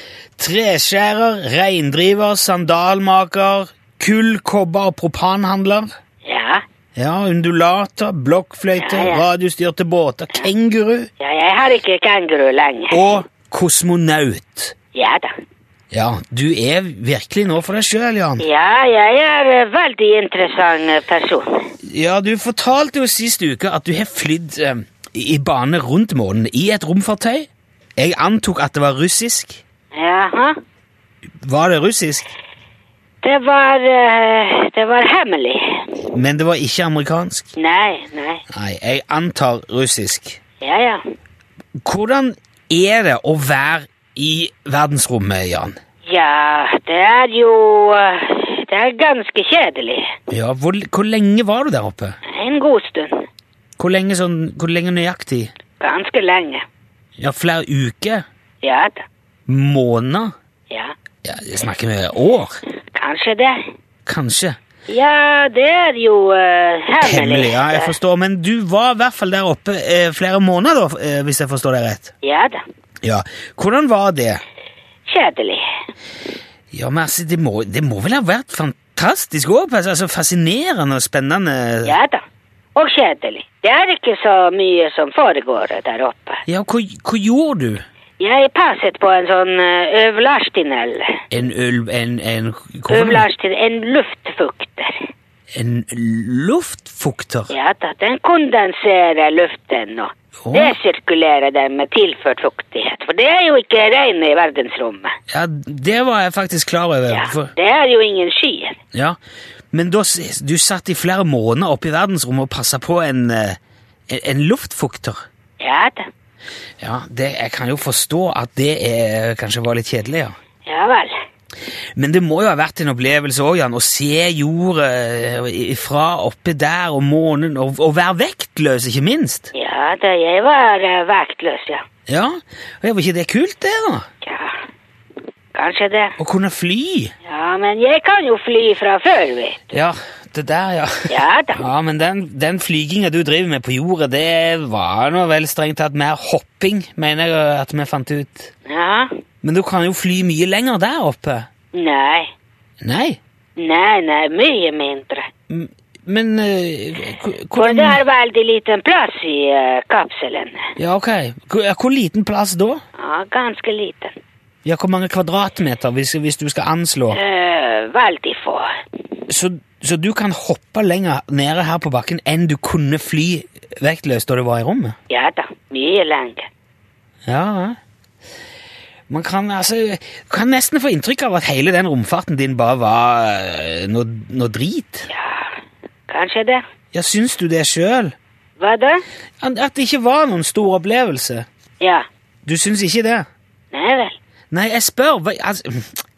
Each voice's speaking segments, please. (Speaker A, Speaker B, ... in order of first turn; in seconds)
Speaker A: 0.4-5.9, 7.0-11.1, 12.9-14.7, 15.9-18.4, 21.8-29.6, 31.4-32.3, 36.1-37.5, 38.5-40.4, 41.8-45.8, 50.3-52.2, 53.8-55.5, 57.2-58.2, 59.5-60.3, 61.2-62.6, 64.0-64.6, 67.0-72.1, 73.0-74.4, 76.7-82.0, 86.5-87.8, 91.3-93.3, 95.5-97.5, 100.4-100.8, 105.3-107.5, 109.7-113.6, 114.1-115.2, 116.8-120.3, 122.0-129.5, 132.1-134.1, 136.2-137.1, 139.7-148.5, 149.4-151.5, 152.8-153.2, 155.5-158.0, 160.8-162.8, 164.6-167.2, 169.3-174.9, 177.3-177.8, 179.1-185.1, 186.9-188.1, 189.4-191.4, 192.4-193.3, 194.5-196.0
Speaker B: 6.2-6.6, 8.8-9.2, 11.2-13.0, 14.9-15.3, 18.4-21.5, 29.9-30.5, 33.2-35.8, 37.5-38.4, 40.6-41.0, 46.1-50.1, 52.3-53.2, 55.8-56.6, 58.6-59.0, 62.9-63.6, 64.9-67.9, 72.2-72.6, 75.1-75.6, 81.8-82.2, 82.8-86.4, 88.2-91.2, 92.9-95.0, 97.5-105.1, 107.1-108.8, 115.6-116.0, 120.7-121.1, 129.5-131.8, 134.2-134.6, 135.5-136.2, 137.2-139.6, 141.1-141.6, 148.7-149.1, 151.7-152.3, 153.6-155.3, 157.6-160.7, 163.0-164.2, 167.1-168.7, 175.1-176.5, 185.1-185.5, 186.1-186.6, 188.6-189.0, 193.7-194.2